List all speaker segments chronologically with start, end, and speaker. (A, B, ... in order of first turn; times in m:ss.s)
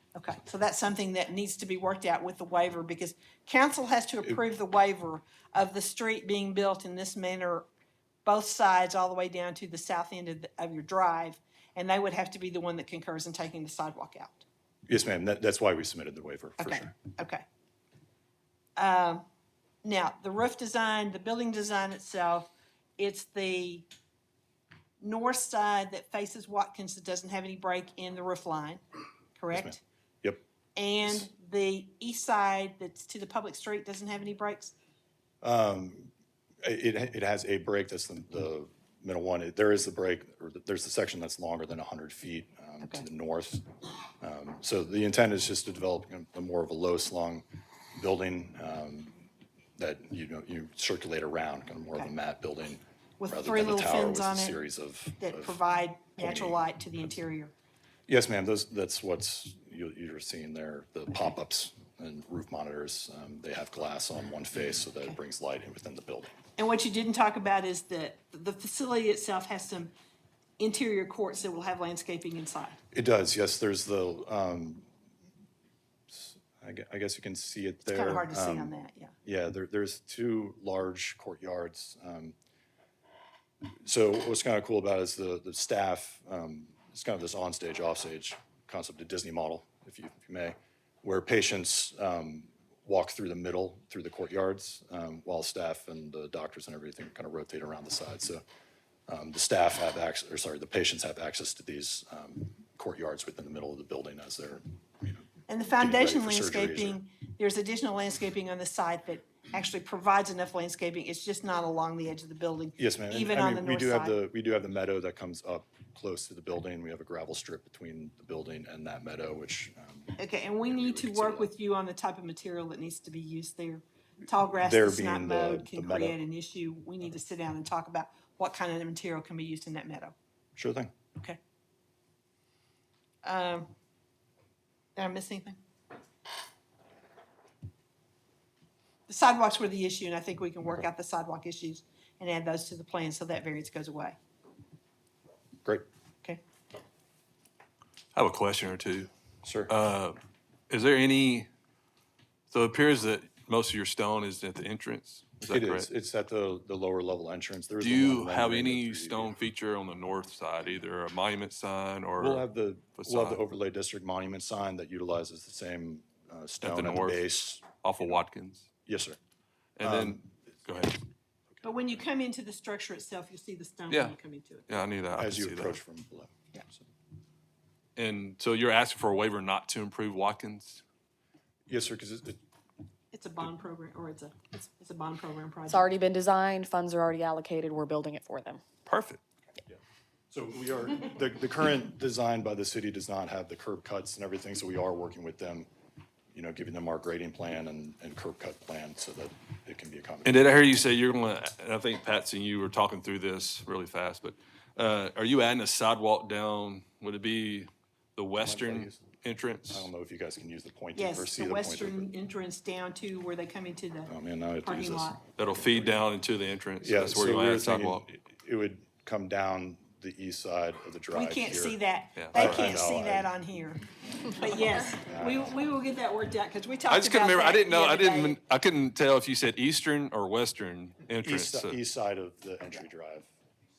0:00.1-0:07.6 A
0:08.2-0:14.4 A
0:14.9-0:17.0 B
0:16.6-0:17.4 A
0:18.8-0:19.2 A
0:19.8-0:23.8 A
0:25.0-0:28.8 A
0:29.4-0:29.8 A
0:29.5-0:30.4 B
0:30.8-0:34.7 A
0:35.4-0:36.1 B
0:36.6-0:43.6 B
0:44.2-0:55.6 B
0:53.2-0:54.6 A
0:55.2-0:57.5 A
0:56.2-0:56.6 B
0:58.1-1:06.4 B
1:06.6-1:09.9 A
1:10.6-1:12.8 A
1:12.9-1:14.9 B
1:16.1-1:18.7 B
1:17.8-1:19.1 A
1:19.2-1:22.3 B
1:23.8-1:38.4 B
1:39.1-1:45.3 B
1:45.5-1:54.2 A
1:45.8-1:47.0 B
1:52.8-2:01.5 B
2:00.2-2:10.1 A
2:04.6-2:06.2 B
2:10.6-2:10.9 B
2:13.2-2:13.7 A
2:15.0-2:15.6 A
2:19.1-2:24.2 A
2:28.1-2:29.1 C
2:29.4-2:29.7 B
2:29.7-2:30.2 C
2:30.7-2:31.5 C
2:32.5-2:35.9 C
2:35.5-2:39.4 B
2:37.8-2:42.4 C
2:42.2-2:48.2 B
2:43.0-2:43.4 C
2:46.6-2:48.7 C
2:48.8-2:49.2 B
2:49.8-2:51.0 C
2:49.8-2:50.4 B
2:51.6-2:52.0 B
2:51.6-2:54.9 A
2:53.9-2:54.1 C
2:54.7-2:55.8 C
2:55.2-2:56.8 B
2:58.0-3:00.8 C
3:01.7-3:02.4 B
3:03.1-3:05.9 A
3:05.7-3:08.6 D
3:08.8-3:09.2 C
3:10.3-3:15.7 B
3:16.3-3:20.4 B
3:20.2-3:29.9 C
3:28.4-3:29.1 B
3:29.7-3:32.1 B
3:30.9-3:35.2 A
3:34.1-3:36.0 B
3:35.4-3:38.0 C
3:36.8-3:41.8 B
3:41.1-3:48.4 A
3:42.2-3:42.7 C
3:42.3-3:43.3 B
3:45.0-3:45.5 B
3:46.9-3:51.8 C
3:51.2-3:53.3 B